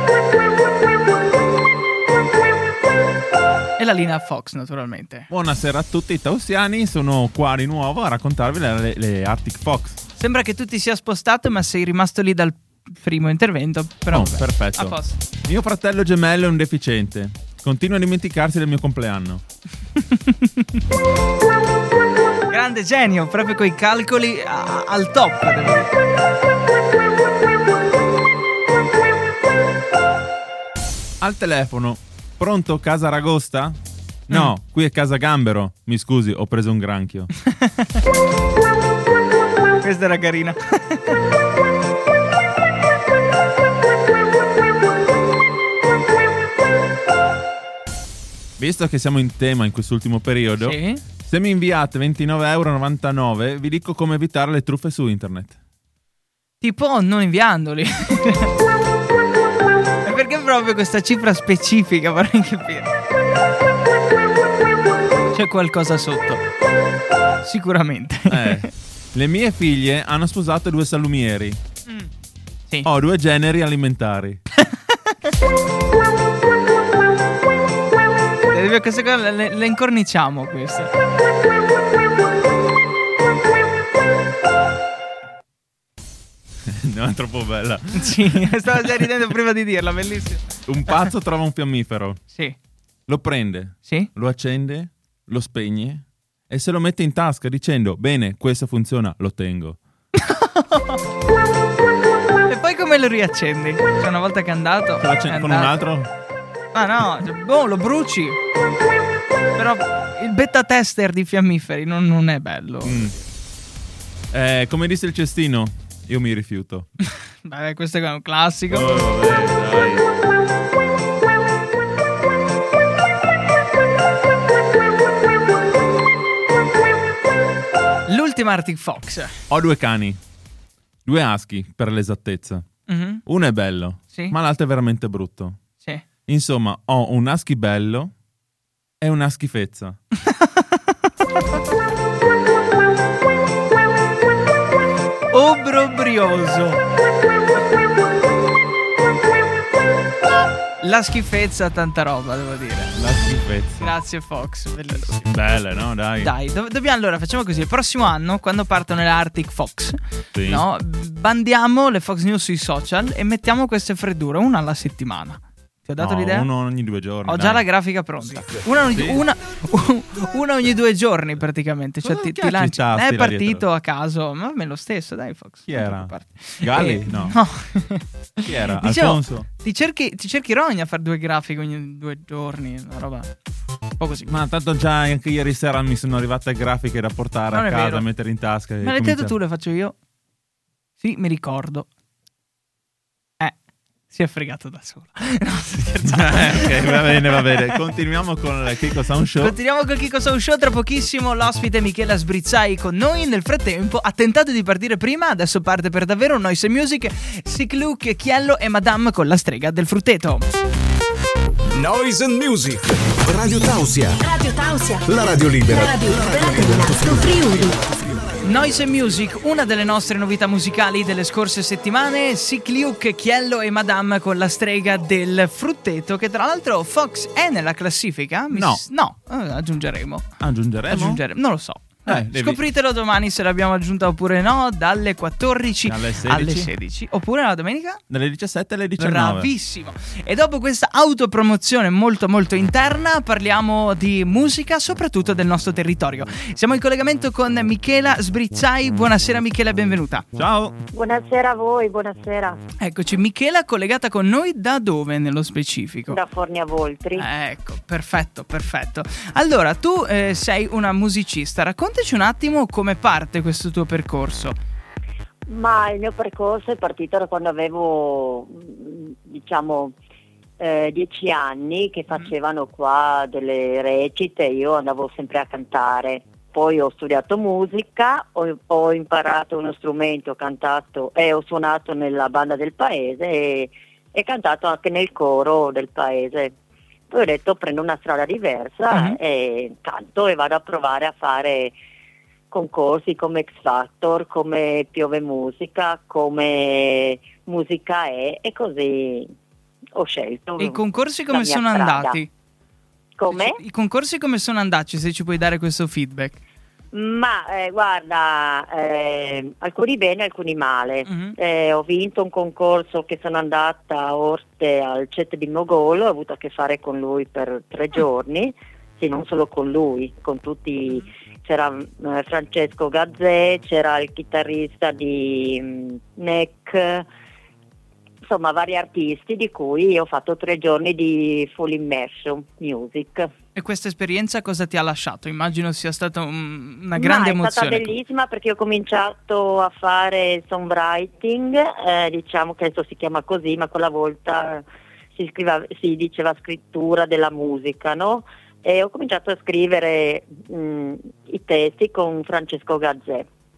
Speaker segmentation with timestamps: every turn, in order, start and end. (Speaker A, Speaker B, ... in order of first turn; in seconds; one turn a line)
Speaker A: 3.8-5.3
Speaker B: 5.3-10.0
Speaker A: 10.2-15.2
Speaker B: 14.1-19.4
Speaker A: 20.0-20.7
Speaker A: 22.5-25.9
Speaker B: 31.2-33.8
Speaker B: 34.3-37.3
Speaker A: 37.5-38.0
Speaker A: 39.8-41.1
Speaker B: 48.6-55.6
Speaker A: 50.6-51.0
Speaker A: 56.6-58.5
Speaker A: 60.0-62.9
Speaker A: 65.3-66.4
Speaker A: 67.4-68.7
Speaker B: 68.3-71.6
Speaker B: 72.8-74.4
Speaker A: 74.6-75.3
Speaker A: 78.5-80.9
Speaker B: 86.7-88.9
Speaker A: 87.9-91.1
Speaker B: 90.7-92.2
Speaker B: 93.1-99.8
Speaker A: 100.2-101.0
Speaker A: 102.5-105.9
Speaker B: 105.0-106.1
Speaker A: 106.7-108.4
Speaker A: 109.6-113.2
Speaker B: 112.8-113.2
Speaker B: 114.3-116.9
Speaker A: 117.4-118.9
Speaker B: 118.7-120.0
Speaker A: 128.1-129.3
Speaker B: 129.5-130.2
Speaker B: 131.1-132.7
Speaker A: 132.9-133.2
Speaker B: 133.2-135.6
Speaker B: 136.3-138.1
Speaker B: 139.0-140.0
Speaker A: 140.3-140.8
Speaker A: 145.3-146.8
Speaker A: 150.8-153.0
Speaker B: 152.9-153.9
Speaker A: 153.8-155.3
Speaker B: 155.2-156.3
Speaker A: 156.2-166.5
Speaker B: 160.3-160.7
Speaker B: 166.0-167.7
Speaker A: 167.2-183.3
Speaker B: 168.9-169.2
Speaker B: 172.0-173.7
Speaker B: 175.7-177.4
Speaker B: 178.4-179.5
Speaker A: 184.0-184.3
Speaker B: 184.2-189.3
Speaker A: 187.5-188.1
Speaker A: 188.8-189.9
Speaker A: 191.0-191.9
Speaker A: 194.1-197.8
Speaker B: 196.0-199.6
Speaker A: 199.4-210.5
Speaker C: 211.7-214.2
Speaker D: 214.2-215.1
Speaker C: 215.1-219.2
Speaker D: 215.6-217.8
Speaker A: 218.4-230.3
Speaker B: 228.5-228.8
Speaker B: 230.4-231.2
Speaker A: 230.9-238.0
Speaker B: 232.1-232.6
Speaker B: 235.8-236.7
Speaker B: 238.1-239.5
Speaker A: 239.0-250.3
Speaker B: 250.3-250.8
Speaker E: 250.9-252.6
Speaker A: 252.8-256.2
Speaker E: 256.1-257.3
Speaker A: 257.2-264.6
Speaker E: 265.5-269.9
Speaker E: 270.6-286.6
Speaker E: 287.1-291.8
Speaker A: 288.9-289.2
Speaker E: 292.5-299.3
Speaker E: 299.9-302.2
Speaker A: 300.6-302.3
Speaker E: 303.2-303.6
Speaker A: 303.3-306.4
Speaker E: 306.9-327.1
Speaker A: 311.1-311.4
Speaker E: 328.3-333.3
Speaker A: 333.6-337.9
Speaker E: 337.0-344.6
Speaker E: 345.1-353.3